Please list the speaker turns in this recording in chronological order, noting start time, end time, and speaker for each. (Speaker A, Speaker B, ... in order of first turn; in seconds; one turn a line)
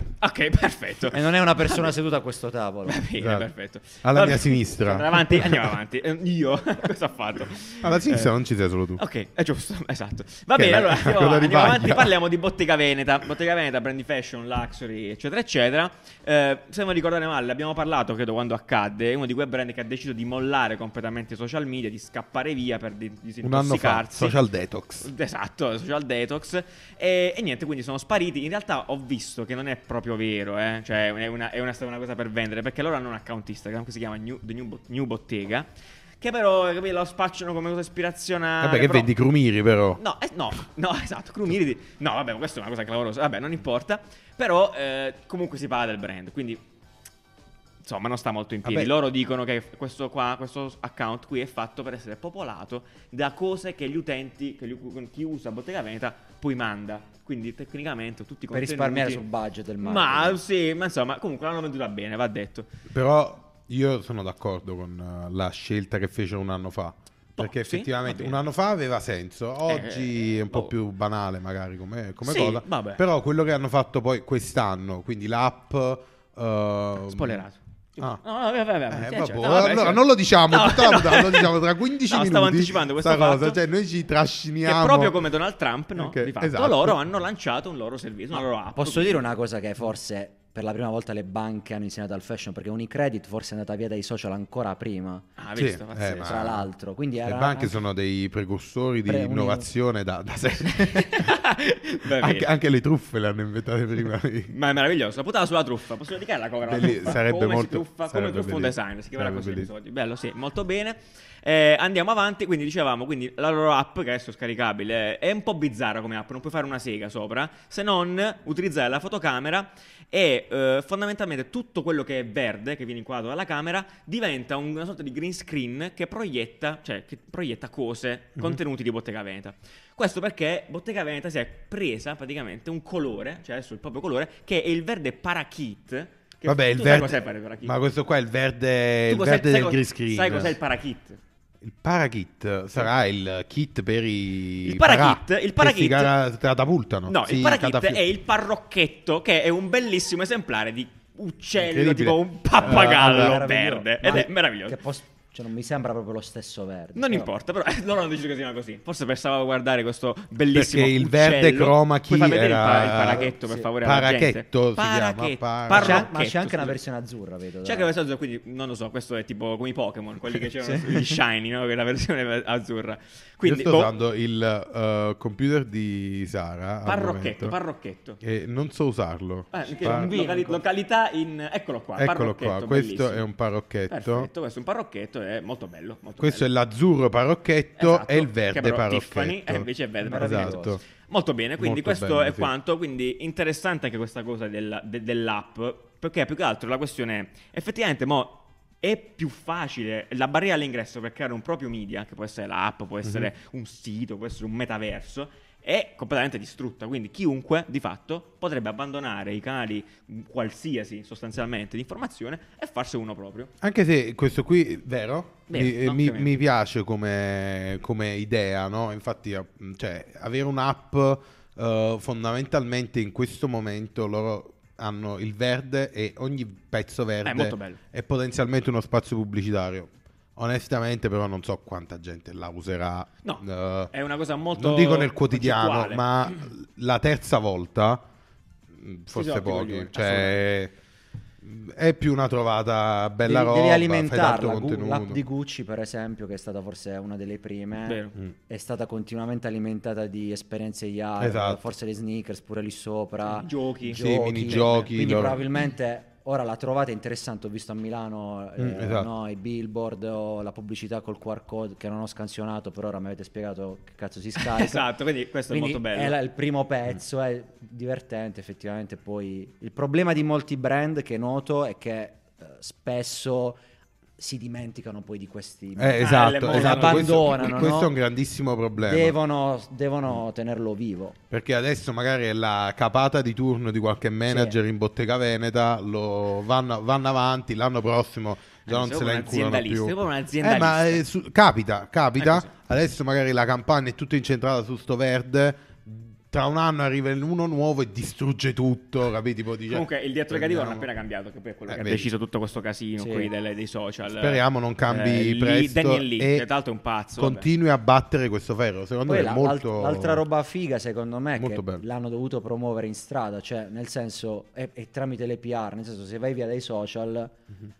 Speaker A: 0.2-1.7
Speaker B: 1.1-3.0
Speaker A: 2.9-8.3
Speaker C: 3.2-3.5
Speaker C: 4.0-5.7
Speaker C: 7.8-9.0
Speaker A: 9.0-24.4
Speaker C: 10.5-12.1
Speaker C: 23.4-25.1
Speaker A: 25.0-35.7
Speaker A: 36.2-39.1
Speaker C: 38.6-40.0
Speaker A: 40.0-46.6
Speaker A: 47.8-59.2
Speaker C: 48.6-48.9
Speaker B: 58.5-60.4
Speaker A: 59.8-62.7
Speaker C: 62.9-77.4
Speaker A: 67.4-68.4
Speaker A: 69.7-70.7
Speaker A: 72.2-73.0
Speaker A: 77.1-83.6
Speaker C: 78.9-85.2
Speaker A: 84.6-89.2
Speaker C: 85.9-87.0
Speaker B: 88.4-95.2
Speaker A: 95.4-96.3
Speaker C: 95.5-96.7
Speaker B: 96.2-97.8
Speaker C: 97.2-101.3
Speaker B: 99.0-99.7
Speaker A: 100.6-102.5
Speaker C: 102.1-104.5
Speaker A: 104.5-137.7
Speaker C: 106.6-109.7
Speaker C: 136.4-140.6
Speaker A: 139.1-141.2
Speaker C: 141.6-148.0
Speaker A: 144.6-146.1
Speaker A: 147.1-154.8
Speaker C: 151.6-153.4
Speaker B: 152.6-157.3
Speaker A: 156.9-166.8
Speaker C: 160.5-166.1
Speaker B: 163.1-163.7
Speaker B: 165.7-167.9
Speaker A: 167.6-173.9
Speaker B: 170.6-171.2
Speaker C: 173.4-177.6
Speaker A: 176.8-178.2
Speaker C: 178.2-180.2
Speaker A: 179.5-183.3
Speaker B: 179.8-180.6
Speaker C: 181.9-184.3
Speaker A: 183.9-186.5
Speaker C: 186.2-190.8
Speaker A: 187.8-213.5
Speaker B: 190.0-190.8
Speaker C: 191.6-192.5
Speaker C: 213.6-233.9
Speaker A: 215.5-216.3
Speaker A: 227.2-227.8
Speaker A: 233.2-236.5
Speaker C: 234.5-238.0
Speaker C: 238.7-240.7
Speaker A: 239.1-240.4
Speaker C: 241.4-245.2
Speaker B: 243.2-264.9
Speaker A: 247.9-248.2
Speaker C: 251.2-251.7
Speaker A: 253.2-255.2
Speaker C: 253.9-255.4
Speaker C: 258.6-259.1
Speaker A: 264.4-266.1
Speaker B: 265.5-273.6
Speaker B: 274.2-277.9
Speaker C: 275.8-279.1
Speaker A: 276.0-277.5
Speaker B: 278.8-281.2
Speaker C: 281.3-300.9
Speaker B: 284.3-284.6
Speaker A: 288.6-291.0
Speaker A: 292.2-292.5
Speaker A: 299.7-307.5
Speaker C: 301.7-302.1
Speaker B: 303.0-303.3
Speaker C: 304.2-306.4
Speaker C: 307.2-310.2
Speaker B: 309.1-317.4
Speaker C: 311.4-311.8